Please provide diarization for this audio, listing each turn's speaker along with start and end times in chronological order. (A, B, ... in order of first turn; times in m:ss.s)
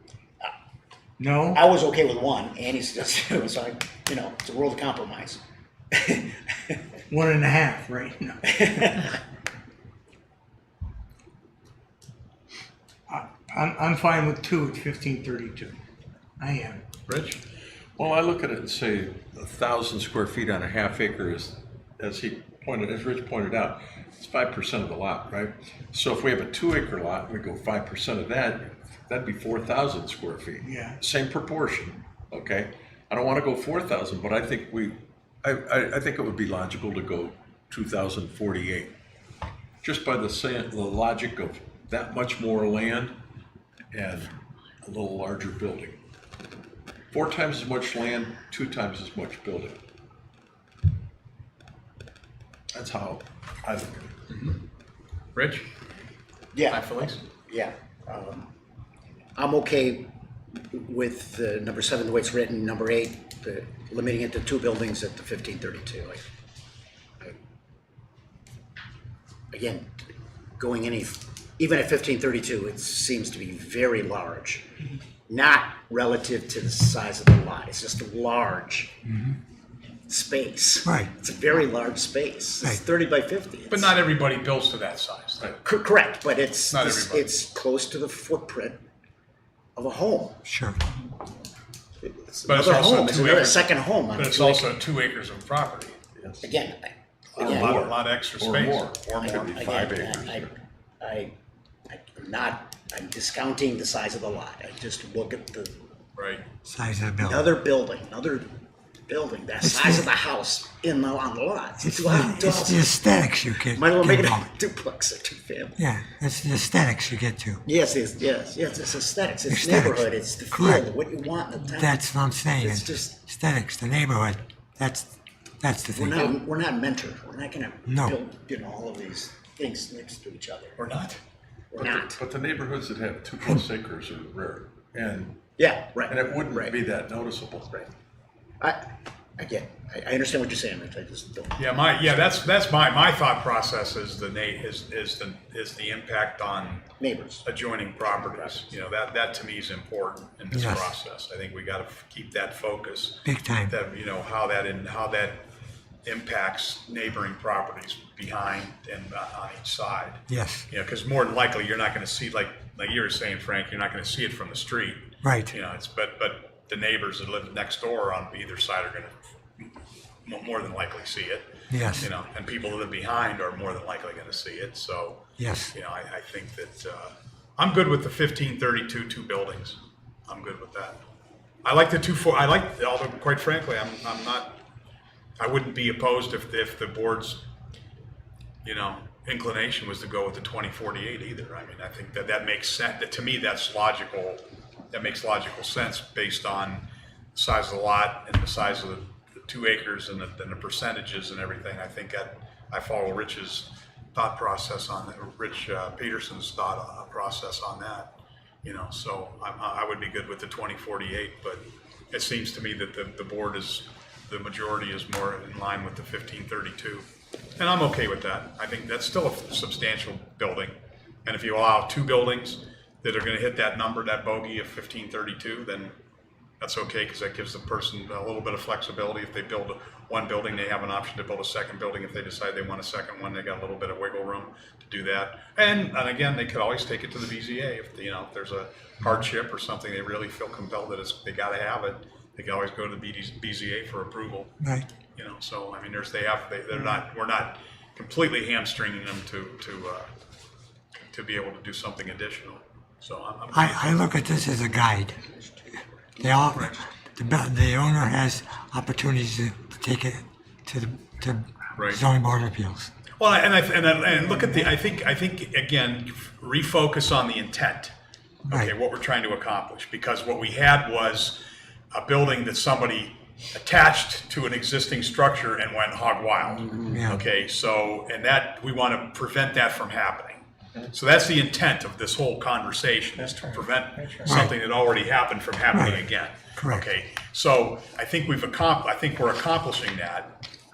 0:01.2-0:01.6 A
0:01.5-0:05.4 B
0:05.9-0:06.8 B
0:07.1-0:08.9 A
0:08.5-0:09.1 B
0:13.1-0:15.8 A
0:16.4-0:16.8 A
0:17.1-0:17.4 C
0:18.0-0:38.9 D
0:30.6-0:31.0 A
0:39.8-0:43.2 D
0:43.9-0:46.0 D
0:47.1-0:49.8 D
0:52.7-0:54.1 D
0:54.3-0:54.6 C
0:55.4-0:55.7 C
0:56.5-0:58.5 B
0:56.7-0:57.2 C
0:59.4-1:00.1 B
1:00.6-1:06.2 B
1:09.5-1:10.0 B
1:10.6-1:14.6 B
1:15.3-1:19.0 B
1:20.1-1:23.9 B
1:20.8-1:21.1 E
1:23.7-1:25.6 C
1:25.6-1:28.8 B
1:26.7-1:27.3 C
1:29.8-1:30.4 B
1:30.5-1:30.8 E
1:32.0-1:34.7 B
1:32.5-1:36.0 C
1:36.2-1:36.5 D
1:36.4-1:37.9 B
1:37.4-1:39.8 C
1:37.4-1:40.5 D
1:39.2-1:41.3 B
1:41.9-1:45.8 B
1:46.2-1:46.4 C
1:46.6-1:47.5 E
1:47.2-1:48.5 B
1:49.1-1:52.9 B
1:49.6-1:50.1 E
1:51.8-1:54.5 E
1:53.6-1:55.8 B
1:55.8-1:57.6 E
1:57.6-2:02.0 B
1:59.5-2:00.9 E
2:01.7-2:05.1 E
2:02.5-2:03.2 B
2:05.6-2:06.3 E
2:05.9-2:10.8 B
2:07.9-2:08.2 E
2:10.8-2:11.2 C
2:11.7-2:12.2 B
2:11.7-2:15.4 D
2:15.6-2:16.7 B
2:16.1-2:17.8 D
2:18.6-2:21.6 B
2:21.6-2:26.9 C
2:27.0-2:27.4 B
2:27.4-2:35.4 C
2:30.5-2:30.9 E
2:33.2-2:33.7 E
2:36.0-2:49.7 C
2:40.3-2:40.7 E
2:45.2-2:45.5 E
2:50.2-3:01.0 C
2:51.7-2:52.1 E
2:55.4-2:55.7 E
3:01.6-3:04.6 C
3:05.4-3:07.4 C
3:08.6-3:37.0 C
3:37.6-3:45.9 C
3:46.6-4:04.6 C
4:05.2-4:10.1 C
4:11.1-4:14.0 C
4:13.5-4:15.2 E
4:16.2-4:22.9 E
4:16.5-4:16.8 C
4:21.8-4:22.0 C
4:23.2-4:27.9 C
4:28.5-4:50.3 C
4:36.9-4:37.2 E
4:44.3-4:44.6 E
4:45.7-4:46.0 E
4:46.6-4:46.8 E